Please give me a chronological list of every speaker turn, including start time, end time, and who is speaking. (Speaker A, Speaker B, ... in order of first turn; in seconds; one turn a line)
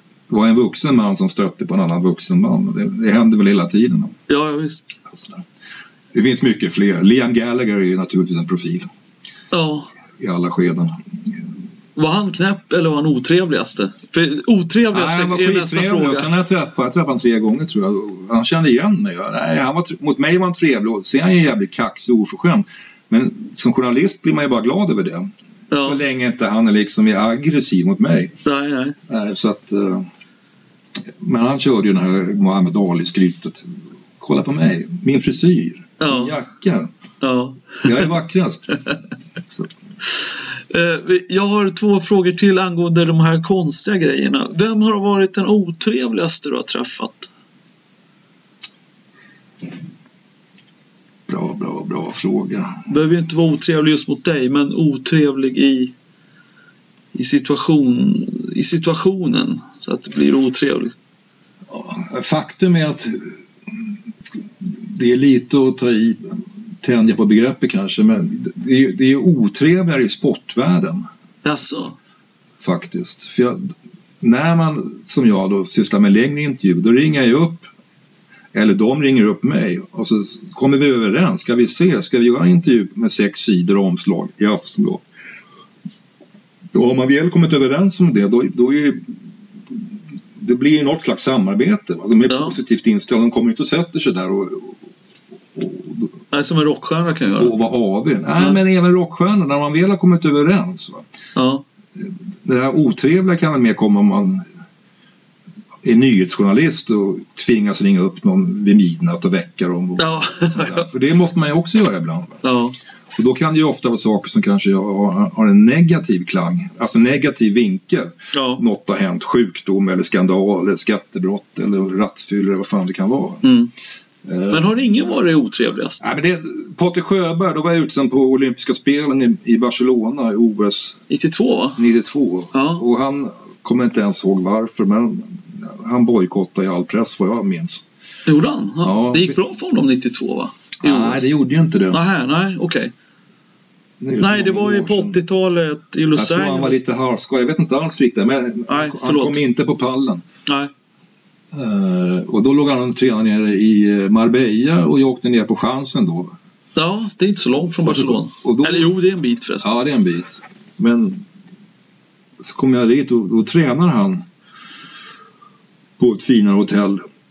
Speaker A: 0.3-4.2
Speaker B: 4.3-4.8
Speaker A: 5.1-5.4
Speaker A: 6.1-8.9
Speaker B: 9.5-9.9
Speaker A: 10.2-11.0
Speaker B: 12.0-16.3
Speaker A: 14.9-28.3
Speaker B: 25.7-26.0
Speaker B: 28.4-29.0
Speaker A: 29.1-30.1
Speaker A: 31.2-33.6
Speaker A: 34.2-36.9
Speaker B: 36.0-36.4
Speaker B: 37.2-38.0
Speaker A: 37.8-38.7
Speaker B: 40.7-47.3
Speaker A: 51.3-52.8
Speaker B: 52.9-55.9
Speaker B: 57.1-61.0
Speaker A: 61.7-63.3
Speaker A: 64.6-71.0
Speaker B: 71.4-72.0
Speaker A: 72.6-73.6
Speaker A: 74.2-77.7
Speaker A: 78.5-85.0
Speaker A: 86.7-89.1
Speaker A: 90.4-94.8
Speaker B: 92.3-92.5
Speaker A: 95.5-96.1
Speaker B: 96.3-97.5
Speaker A: 97.4-101.0
Speaker B: 101.4-101.6
Speaker A: 102.0-104.4
Speaker A: 105.8-112.4
Speaker B: 110.0-110.8
Speaker B: 112.4-112.8
Speaker A: 113.1-123.4
Speaker B: 118.3-118.6
Speaker B: 123.4-123.7
Speaker A: 124.2-125.1
Speaker B: 124.5-126.0
Speaker A: 126.0-131.0
Speaker B: 131.1-131.8
Speaker A: 131.8-137.8
Speaker B: 132.5-132.8
Speaker B: 138.3-141.3
Speaker A: 138.8-139.4
Speaker A: 140.8-142.0
Speaker B: 141.9-142.9
Speaker A: 144.0-145.2
Speaker B: 144.2-146.8
Speaker A: 146.2-150.2
Speaker B: 148.7-149.4
Speaker A: 151.5-156.3
Speaker B: 156.8-159.7
Speaker A: 157.8-158.9
Speaker A: 159.6-161.2
Speaker A: 162.4-164.2
Speaker A: 166.0-167.0